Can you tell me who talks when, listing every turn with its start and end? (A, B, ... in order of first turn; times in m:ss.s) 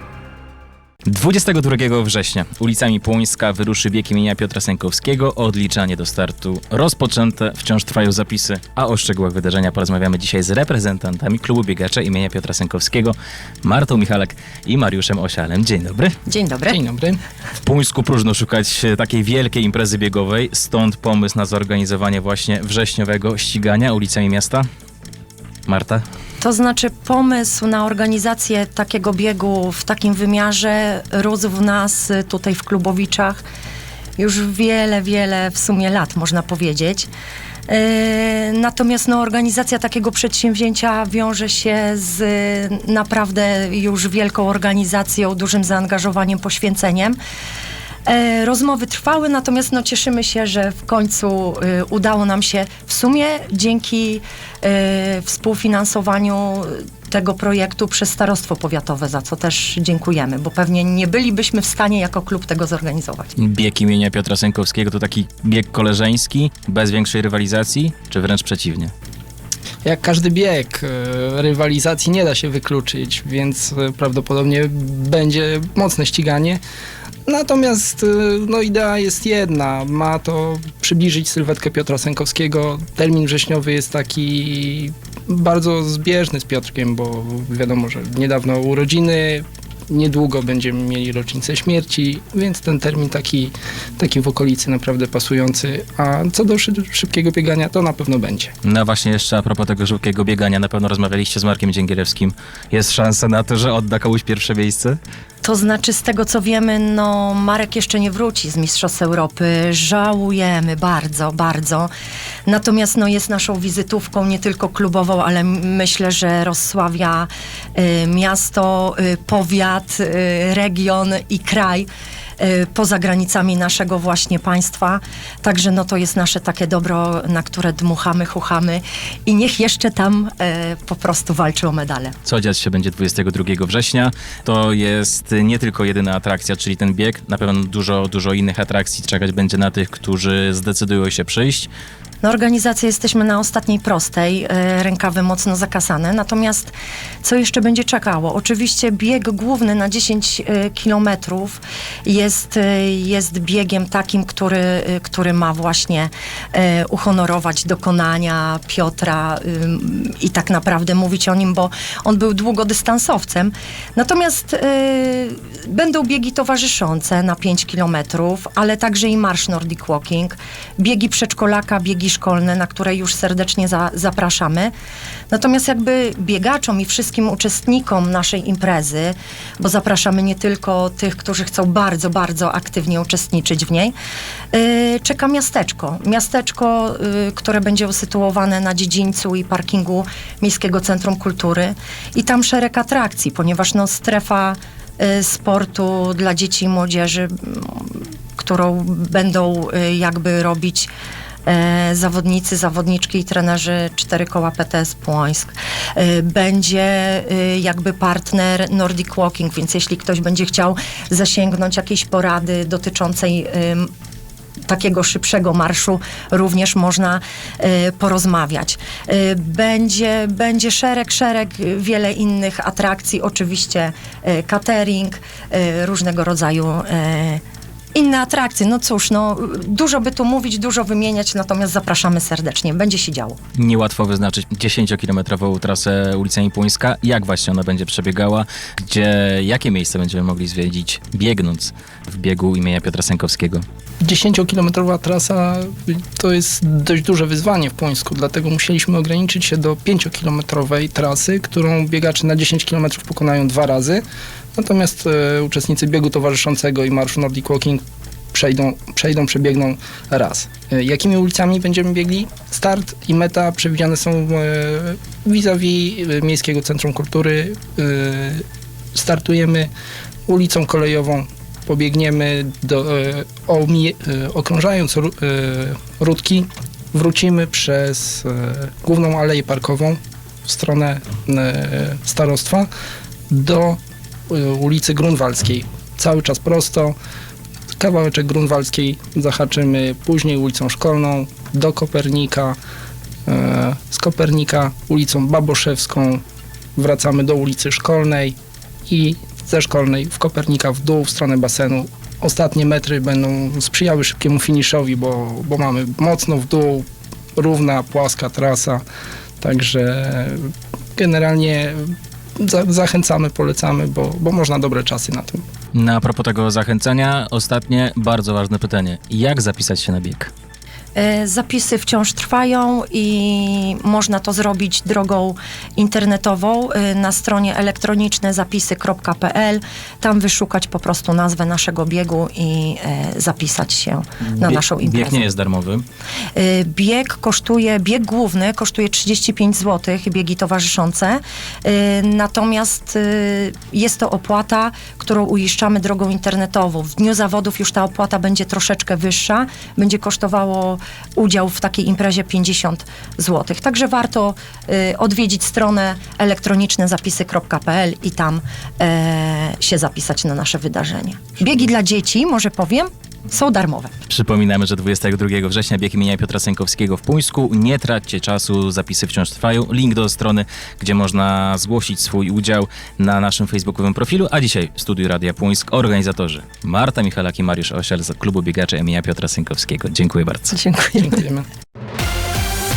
0:01.1-0:16.1 A
0:16.3-0:16.8 B
0:16.7-0:17.2 C
0:17.6-0:24.6 A
0:25.7-0:26.0 A
0:26.4-0:33.4 B
0:34.2-0:37.1 B
0:37.7-0:47.2 B
0:48.0-1:03.3 B
1:03.4-1:08.9 A
1:09.8-1:16.6 C
1:17.3-1:38.5 C
1:38.6-1:45.0 A
1:45.4-1:51.9 B
1:52.5-2:01.9 B
2:02.4-2:12.1 B
2:12.2-2:21.7 A
2:22.2-2:54.7 B
2:55.3-3:03.9 B
3:04.5-3:20.9 B
3:21.4-3:33.9 B
3:34.7-3:47.4 B
3:47.9-3:53.4 B
3:53.6-4:03.6 A
4:04.0-4:14.0 C
4:14.6-4:17.8 C
4:18.3-4:29.7 C
4:30.3-4:42.7 C
4:43.3-4:43.8 C
4:44.3-4:46.9 C
4:47.8-4:52.6 C
4:53.2-4:56.2 C
4:56.8-4:58.4 C
4:58.9-5:08.8 C
5:09.4-5:15.4 C
5:15.7-5:20.3 A
5:20.9-5:35.3 B
5:34.3-5:35.8 A
5:36.3-6:03.9 B
6:04.1-6:20.6 A
6:20.8-6:21.1 B
6:20.9-6:21.4 C